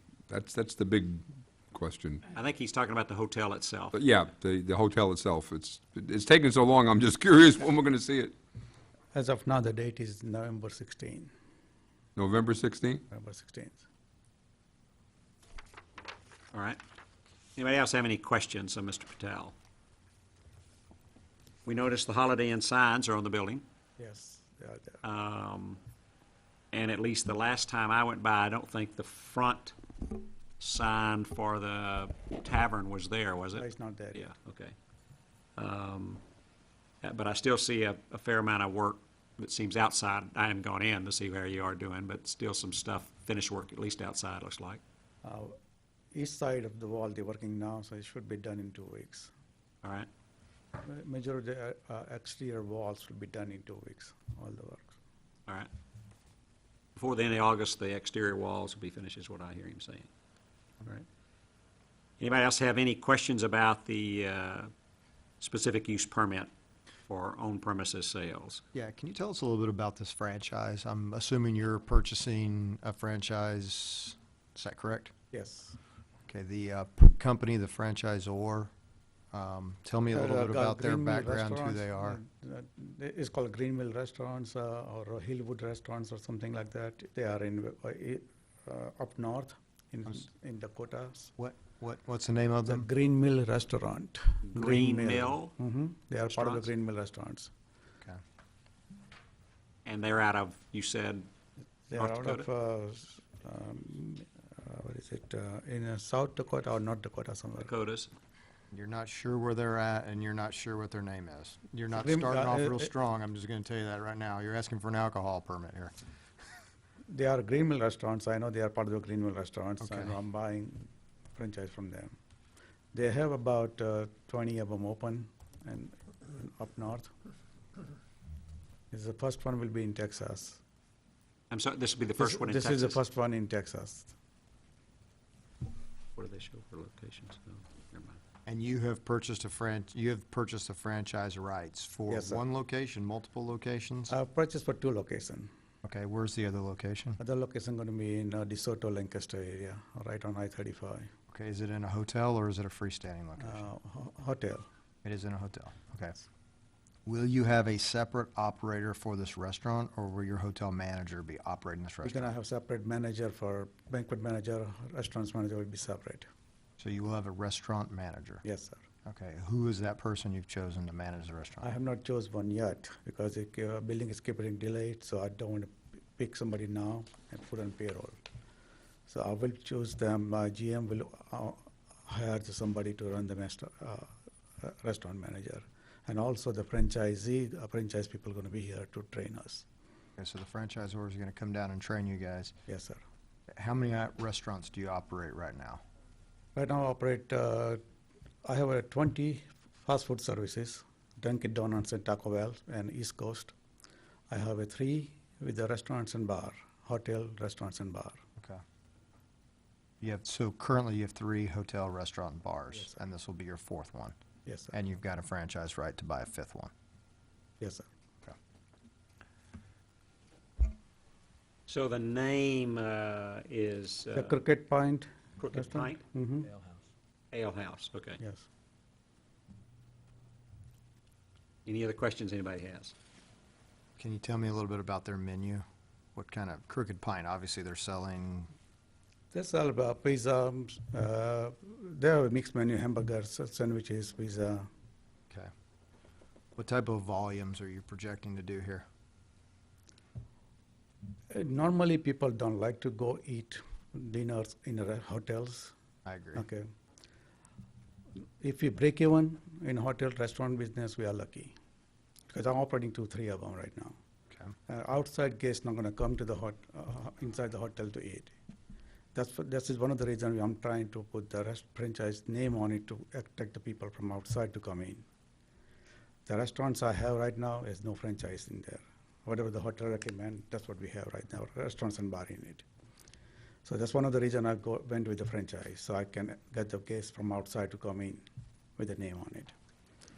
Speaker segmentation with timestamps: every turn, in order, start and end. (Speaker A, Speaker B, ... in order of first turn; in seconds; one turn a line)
Speaker A: 0.3-2.2
Speaker B: 2.3-4.0
Speaker A: 3.9-8.3
Speaker C: 9.1-11.3
Speaker A: 12.2-13.0
Speaker C: 13.1-13.9
Speaker B: 16.5-16.8
Speaker B: 17.6-19.5
Speaker B: 21.7-23.6
Speaker C: 24.0-25.0
Speaker B: 25.0-25.8
Speaker B: 26.7-29.8
Speaker B: 30.6-34.7
Speaker C: 33.6-34.3
Speaker B: 35.6-36.2
Speaker B: 37.0-44.8
Speaker C: 45.2-45.6
Speaker C: 46.1-49.3
Speaker B: 49.8-50.1
Speaker C: 50.8-55.0
Speaker B: 57.0-60.1
Speaker B: 62.2-64.7
Speaker B: 65.4-66.5
Speaker B: 67.1-68.6
Speaker D: 68.7-75.1
Speaker C: 75.3-75.8
Speaker D: 76.3-78.7
Speaker D: 79.3-82.2
Speaker C: 80.1-91.3
Speaker D: 91.4-92.9
Speaker C: 92.7-97.5
Speaker B: 94.5-95.5
Speaker B: 96.3-96.7
Speaker B: 99.8-101.3
Speaker C: 101.9-107.7
Speaker B: 102.0-102.5
Speaker B: 107.6-108.1
Speaker D: 108.7-115.9
Speaker C: 111.9-112.9
Speaker C: 117.1-122.2
Speaker D: 119.8-120.2
Speaker C: 122.9-127.1
Speaker C: 128.9-130.6
Speaker B: 131.5-133.0
Speaker C: 132.2-134.1
Speaker B: 136.2-138.2
Speaker D: 138.5-144.2
Speaker C: 142.1-142.4
Speaker C: 144.1-145.5
Speaker D: 145.8-147.2
Speaker C: 147.2-151.1
Speaker D: 151.3-153.7
Speaker C: 153.4-154.7
Speaker D: 155.0-156.2
Speaker D: 157.1-162.3
Speaker C: 162.0-166.3
Speaker D: 166.8-168.4
Speaker C: 168.4-168.8
Speaker D: 169.1-171.7
Speaker C: 171.6-178.2
Speaker C: 179.1-189.7
Speaker D: 190.2-192.5
Speaker C: 192.7-193.0
Speaker D: 193.5-195.8
Speaker C: 196.6-197.8
Speaker C: 198.4-203.5
Speaker C: 204.3-208.2
Speaker D: 210.0-214.2
Speaker C: 214.5-214.7
Speaker D: 214.7-216.7
Speaker C: 217.6-217.9
Speaker B: 221.7-224.4
Speaker C: 224.1-226.5
Speaker B: 225.4-226.8
Speaker B: 227.3-228.2
Speaker C: 228.2-228.5
Speaker B: 231.7-232.9
Speaker D: 234.0-238.5
Speaker C: 239.3-244.7
Speaker D: 246.6-248.9
Speaker C: 251.3-255.7
Speaker D: 256.1-256.4
Speaker C: 256.4-256.7
Speaker C: 258.4-261.5
Speaker C: 262.3-264.0
Speaker C: 264.7-268.4
Speaker C: 269.1-275.1
Speaker C: 276.3-282.7
Speaker C: 283.6-288.2
Speaker C: 288.8-289.5